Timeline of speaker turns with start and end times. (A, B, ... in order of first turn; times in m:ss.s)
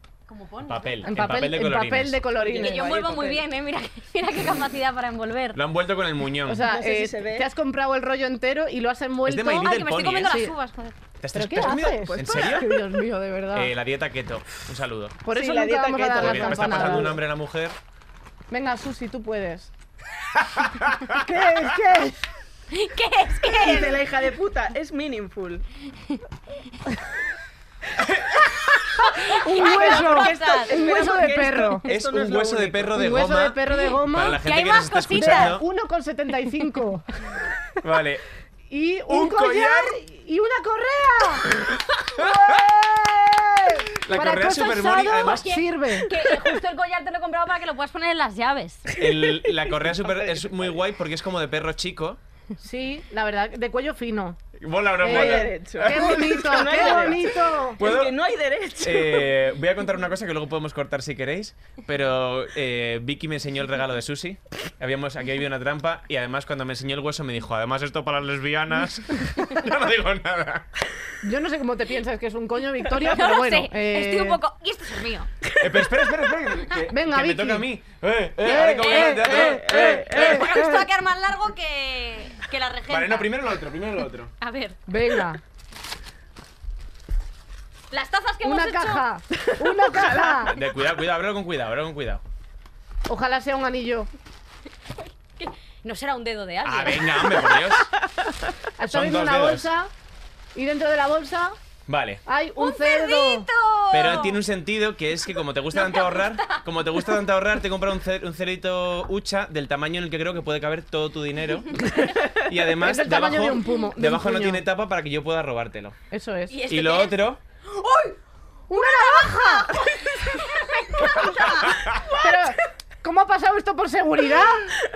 0:00.3-0:01.4 A
0:00.7-0:02.2 B
0:01.1-0:03.2 C
0:02.3-0:03.4 D
0:02.5-0:05.6 A
0:05.6-0:06.6 B
0:06.4-0:09.7 C
0:06.6-0:07.5 D
0:09.2-0:10.4 B
0:09.5-0:11.0 A
0:10.3-0:10.5 C
0:11.2-0:12.8 B
0:11.3-0:13.7 C
0:11.6-0:12.6 D
0:13.5-0:15.2 B
0:15.2-0:17.2 C
0:15.3-0:17.2 D
0:16.1-0:17.8 B
0:18.5-0:19.7 C
0:20.4-0:21.2 B
0:21.1-0:22.2 C
0:22.7-0:24.0 A
0:23.5-0:25.6 D
0:29.1-0:30.9 A
0:29.2-0:31.9 C
0:29.5-0:33.3 D
0:31.9-0:33.6 B
0:32.9-0:34.4 C
0:34.1-0:35.5 A
0:34.1-0:35.7 B
0:35.1-0:37.1 C
0:37.8-0:38.2 B
0:38.7-0:41.5 C
0:39.1-0:40.0 B
0:41.6-0:42.3 B
0:42.1-0:46.1 C
0:44.0-0:45.5 B
0:44.2-0:48.9 A
0:49.0-0:52.2 B
0:49.0-0:50.5 D
0:52.6-0:54.4 C
0:54.6-0:57.1 B
0:55.0-0:59.4 D
0:55.0-0:57.8 C
0:57.8-0:58.2 B
0:58.8-1:10.7 B
1:11.2-1:14.4 C
1:13.0-1:15.3 A
1:15.6-1:20.5 B
1:16.9-1:17.7 C
1:18.4-1:20.9 C
1:18.8-1:23.4 A
1:19.1-1:20.4 D
1:22.9-1:24.3 B
1:24.4-1:24.8 A
1:24.9-1:25.4 C
1:27.9-1:29.0 A
1:28.4-1:30.6 C
1:29.7-1:30.5 D
1:30.5-1:32.2 B
1:33.1-1:34.1 C
1:35.4-1:37.4 A
1:36.6-1:37.9 B
1:37.2-1:38.3 D
1:38.8-1:39.9 C
1:38.9-1:39.7 B
1:40.6-1:41.6 C
1:41.9-1:42.2 B
1:42.3-1:43.5 C
1:42.6-1:44.4 A
1:43.9-1:56.0 B
1:45.7-1:46.6 A
1:52.7-1:54.6 C
1:56.1-1:56.6 C
1:56.5-1:58.2 A
1:56.7-1:57.4 B
1:58.7-1:59.7 C
1:58.7-2:02.0 A
2:01.5-2:02.0 B
2:02.1-2:04.7 C